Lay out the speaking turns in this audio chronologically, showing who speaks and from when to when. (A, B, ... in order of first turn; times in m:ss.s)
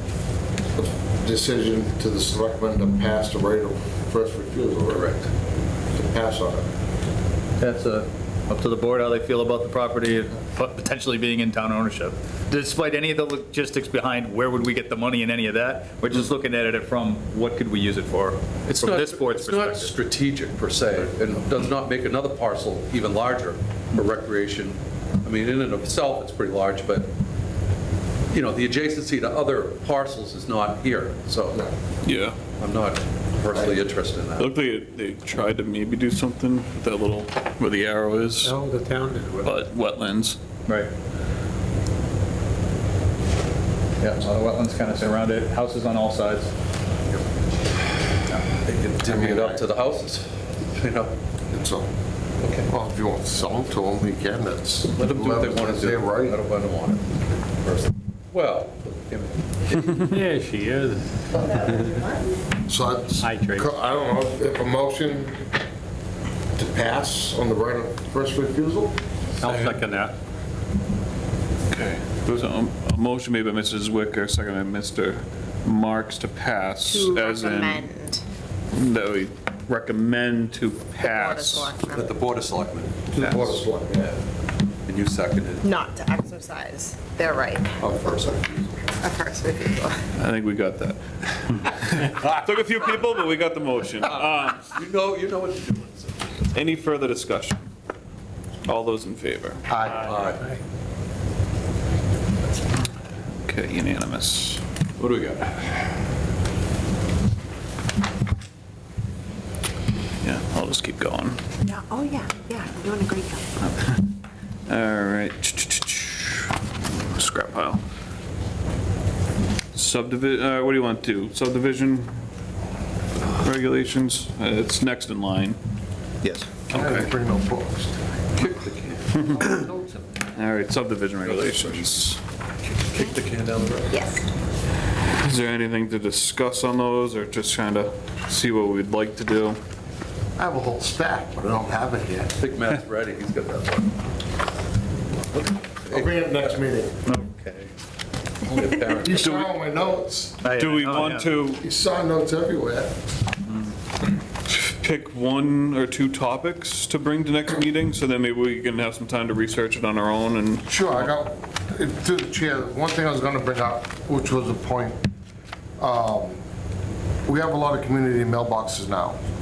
0:00.7-0:05.1 A
0:04.9-0:05.3 B
0:05.9-0:06.7 A
0:07.6-0:19.9 C
0:18.7-0:27.1 B
0:28.3-0:31.7 B
0:32.0-0:32.4 D
0:32.6-0:34.5 B
0:34.4-0:38.6 D
0:38.6-0:39.4 E
0:39.4-0:40.4 D
0:44.0-0:46.5 C
0:48.6-0:51.1 B
0:49.0-0:49.6 A
0:51.5-0:51.9 A
0:52.4-0:52.7 B
0:52.6-0:56.4 A
0:54.9-1:00.2 B
0:59.9-1:01.8 E
1:01.3-1:02.3 F
1:02.7-1:05.5 A
1:03.2-1:03.8 E
1:06.6-1:08.9 A
1:09.4-1:10.1 E
1:09.4-1:09.8 B
1:11.7-1:17.9 D
1:16.8-1:18.2 F
1:18.7-1:21.8 D
1:21.0-1:22.2 F
1:21.9-1:24.2 B
1:23.1-1:24.1 A
1:24.8-1:25.7 B
1:25.6-1:27.8 F
1:27.8-1:28.8 B
1:29.0-1:30.0 F
1:30.1-1:34.7 D
1:34.7-1:36.5 B
1:36.5-1:37.6 D
1:38.6-1:39.6 D
1:39.7-1:40.2 A
1:40.0-1:40.4 B
1:43.4-1:44.6 D
1:45.0-1:45.8 B
1:50.2-1:51.4 D
1:51.6-1:53.4 F
1:53.6-1:54.1 D
1:54.7-1:57.8 D
1:59.7-2:02.1 D
2:03.3-2:05.6 D
2:06.7-2:08.0 A
2:06.7-2:07.1 D
2:08.3-2:09.8 B
2:09.1-2:09.5 D
2:10.3-2:12.2 D
2:11.2-2:11.8 B
2:12.8-2:14.0 B
2:13.9-2:14.2 F
2:15.2-2:19.6 D
2:20.4-2:22.4 A
2:22.4-2:24.0 B
2:25.3-2:26.5 B
2:25.9-2:27.0 A
2:27.1-2:27.7 B
2:28.4-2:29.5 B
2:28.9-2:30.4 A
2:30.4-2:31.3 C
2:30.4-2:31.6 D
2:31.6-2:32.9 A
2:34.4-2:41.1 D
2:40.7-2:45.0 A
2:45.8-2:46.4 A
2:47.2-2:49.2 A